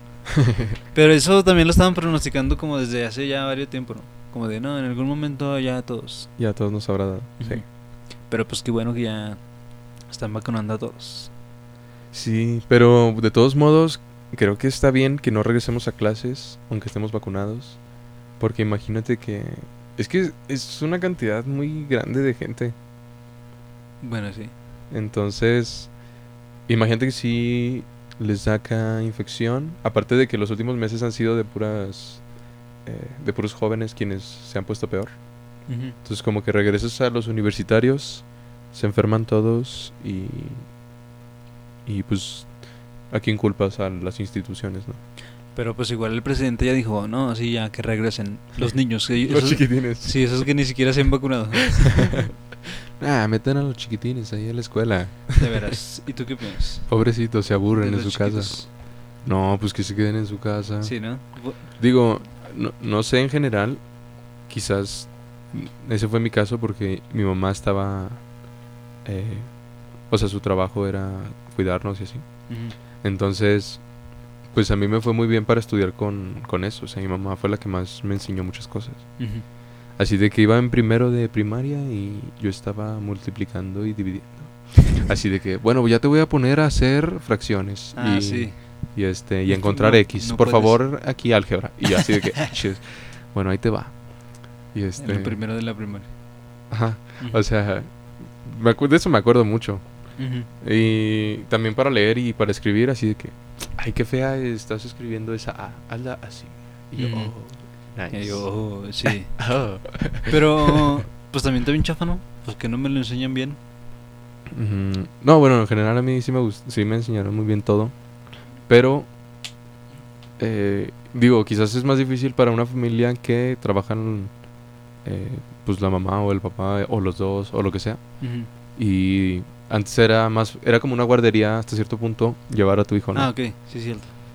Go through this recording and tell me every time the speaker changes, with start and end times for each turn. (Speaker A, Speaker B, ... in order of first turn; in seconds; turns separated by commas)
Speaker A: 0.3-0.7, Speaker B: 0.9-6.3, Speaker A: 6.4-7.6, Speaker B: 7.4-7.7, Speaker B: 8.3-9.4, Speaker B: 10.1-11.3, Speaker A: 12.1-17.8, Speaker A: 18.4-22.7, Speaker B: 24.0-24.5, Speaker A: 24.9-25.9, Speaker A: 26.7-32.2, Speaker A: 32.8-35.2, Speaker B: 35.7-36.0, Speaker A: 36.0-40.7, Speaker A: 41.9-42.5, Speaker A: 43.1-45.0, Speaker B: 45.5-52.2, Speaker A: 49.2-50.2, Speaker A: 51.9-55.7, Speaker B: 55.4-56.9, Speaker A: 56.9-58.6, Speaker B: 57.8-58.7, Speaker A: 59.2-60.9, Speaker B: 60.8-61.6, Speaker A: 61.8-63.8, Speaker A: 64.5-68.2, Speaker A: 69.0-69.5, Speaker A: 70.1-72.2, Speaker B: 72.5-72.7, Speaker A: 73.0-73.8, Speaker A: 74.5-79.2, Speaker B: 79.2-79.4, Speaker A: 80.0-94.0, Speaker B: 87.9-88.6, Speaker B: 89.5-90.8, Speaker A: 94.7-95.4, Speaker B: 95.0-96.1, Speaker A: 96.7-99.8, Speaker B: 100.2-100.5, Speaker A: 100.6-108.5, Speaker B: 107.0-107.3, Speaker B: 108.1-109.3, Speaker A: 109.0-110.9, Speaker B: 110.3-113.6, Speaker A: 114.5-117.9, Speaker A: 118.7-119.1, Speaker A: 120.4-124.3, Speaker A: 125.0-128.0, Speaker B: 128.2-128.5, Speaker A: 128.7-133.3, Speaker B: 133.1-134.1